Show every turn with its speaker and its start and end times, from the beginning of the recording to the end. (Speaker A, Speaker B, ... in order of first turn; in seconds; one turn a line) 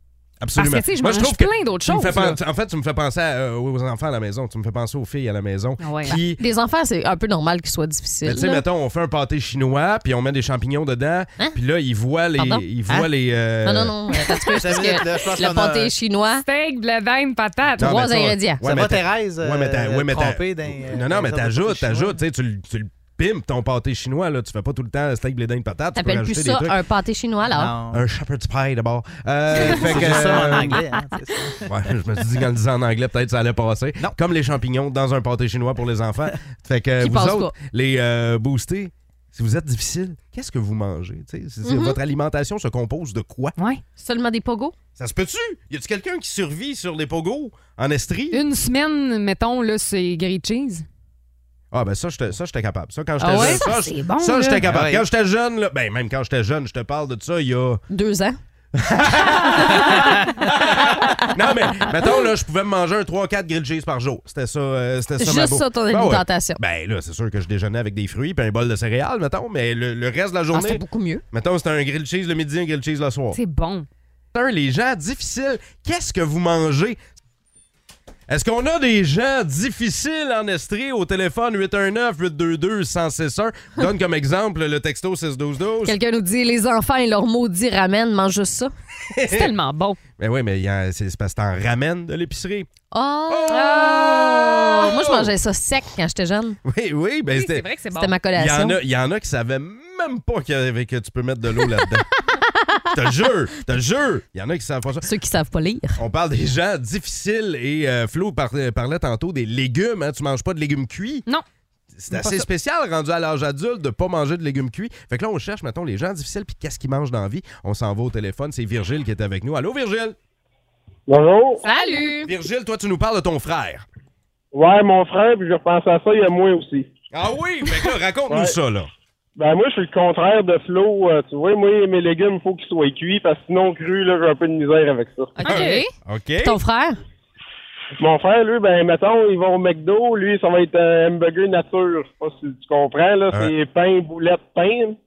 Speaker A: 0.4-6.4
Speaker B: 0.6-2.4
Speaker B: 5.8-6.2
Speaker C: 6.1-8.6
Speaker A: 8.2-13.9
Speaker C: 12.4-12.7
Speaker C: 13.7-16.4
Speaker D: 14.5-15.9
Speaker B: 16.4-17.9
Speaker A: 17.8-26.8
Speaker C: 17.8-18.6
Speaker D: 18.6-22.2
Speaker C: 26.0-27.7
Speaker D: 27.5-28.0
Speaker A: 27.9-30.8
Speaker D: 29.5-31.7
Speaker A: 31.6-43.5
Speaker C: 37.0-37.5
Speaker C: 41.6-42.0
Speaker B: 43.6-43.8
Speaker C: 44.0-44.8
Speaker A: 45.0-48.4
Speaker B: 48.3-50.9
Speaker A: 51.7-57.8
Speaker B: 53.2-54.6
Speaker C: 53.4-53.7
Speaker D: 54.6-55.0
Speaker C: 57.9-58.4
Speaker A: 58.8-73.4
Speaker C: 59.2-61.2
Speaker C: 61.8-62.2
Speaker C: 65.2-66.6
Speaker C: 70.5-71.2
Speaker B: 73.3-73.9
Speaker A: 74.3-77.0
Speaker A: 78.3-86.0
Speaker C: 85.8-88.7
Speaker A: 89.1-89.5
Speaker B: 89.3-90.0
Speaker A: 90.2-92.7
Speaker C: 92.9-96.6
Speaker A: 93.3-95.3
Speaker A: 96.7-97.7
Speaker B: 97.3-98.1
Speaker C: 98.0-98.8
Speaker A: 98.4-102.1
Speaker C: 101.6-102.8
Speaker A: 102.9-105.1
Speaker C: 105.0-106.0
Speaker A: 106.0-111.2
Speaker A: 112.0-120.2
Speaker B: 112.1-112.5
Speaker E: 121.1-121.6
Speaker B: 121.6-122.2
Speaker C: 121.6-122.3
Speaker A: 122.2-123.8
Speaker E: 124.5-126.9
Speaker A: 127.1-128.9
Speaker E: 128.3-128.6
Speaker E: 129.4-135.4
Speaker B: 135.4-135.9
Speaker C: 135.4-135.9
Speaker A: 135.5-136.6
Speaker C: 136.4-137.0
Speaker E: 138.0-145.0